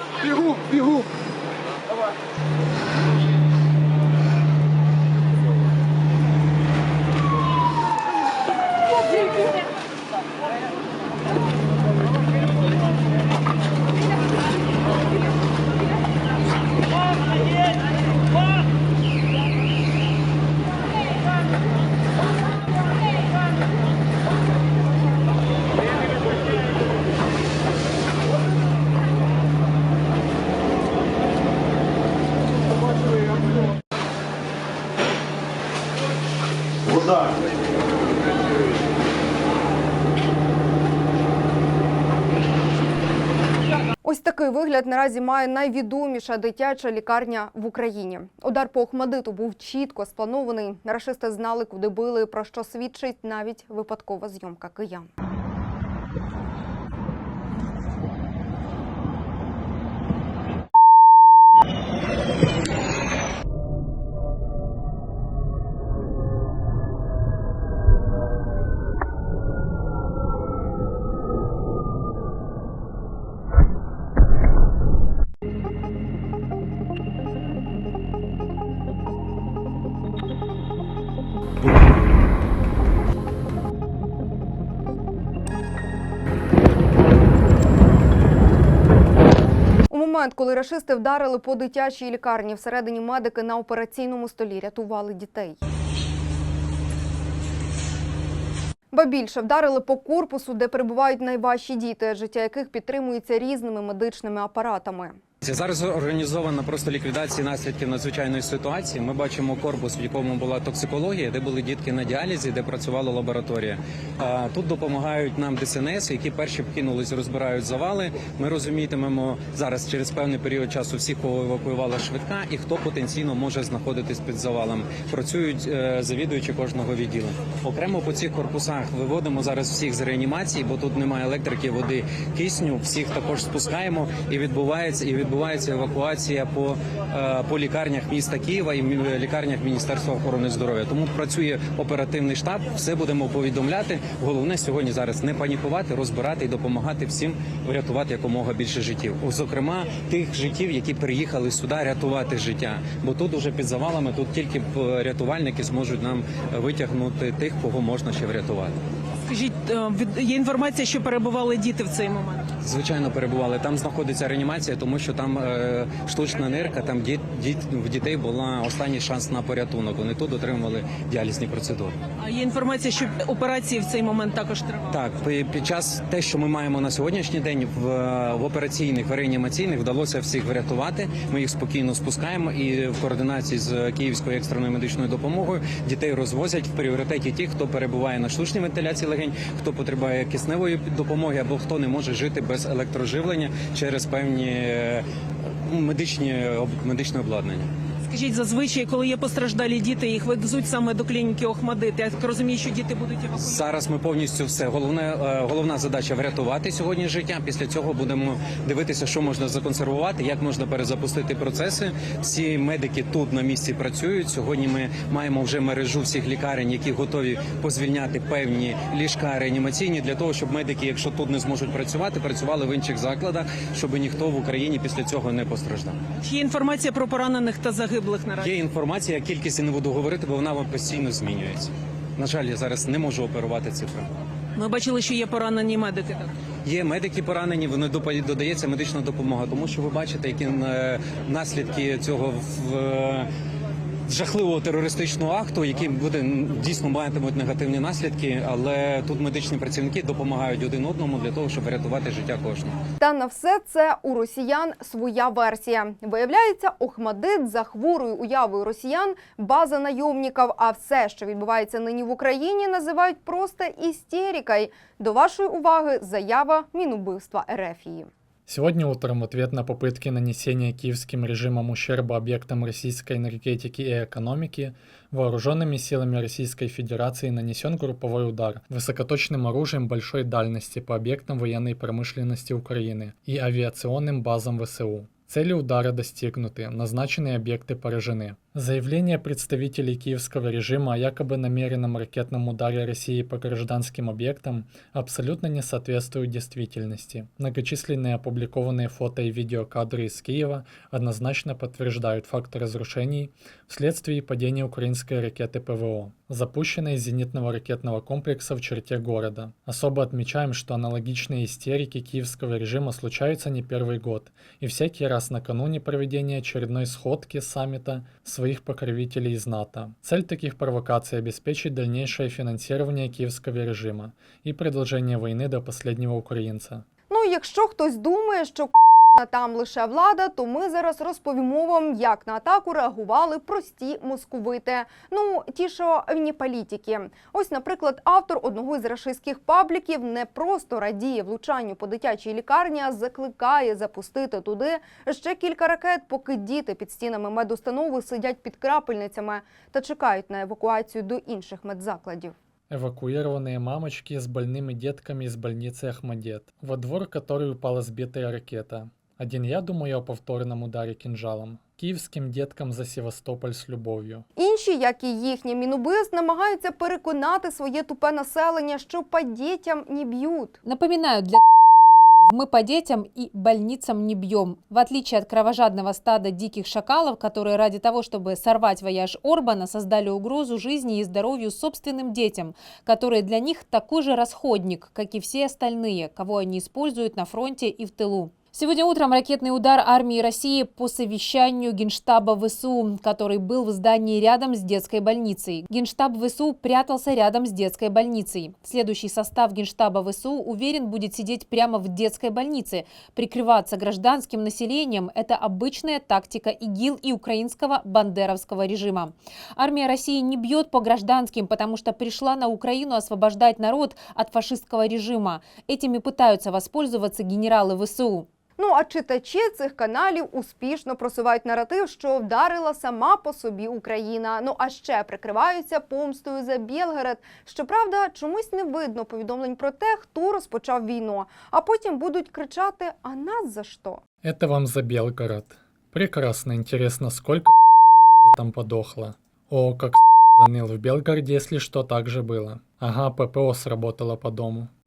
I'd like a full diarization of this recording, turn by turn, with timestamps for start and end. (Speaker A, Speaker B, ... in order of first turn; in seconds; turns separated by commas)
Speaker A: 44.0-55.1, Speaker A: 89.9-95.6, Speaker A: 98.9-105.2, Speaker B: 105.4-158.8, Speaker C: 159.2-162.4, Speaker B: 162.6-172.0, Speaker C: 172.2-174.8, Speaker B: 174.9-195.0, Speaker B: 195.7-197.7, Speaker C: 198.1-203.4, Speaker B: 203.3-226.0, Speaker C: 226.2-228.5, Speaker B: 228.4-234.1, Speaker C: 234.6-236.3, Speaker B: 236.7-243.3, Speaker B: 244.1-252.8, Speaker A: 253.0-268.1, Speaker D: 268.5-326.9, Speaker A: 327.1-352.4, Speaker D: 352.7-364.3, Speaker A: 364.4-370.6, Speaker E: 370.6-371.4, Speaker E: 372.2-418.3, Speaker A: 418.6-434.0, Speaker D: 434.2-437.6, Speaker D: 438.2-444.7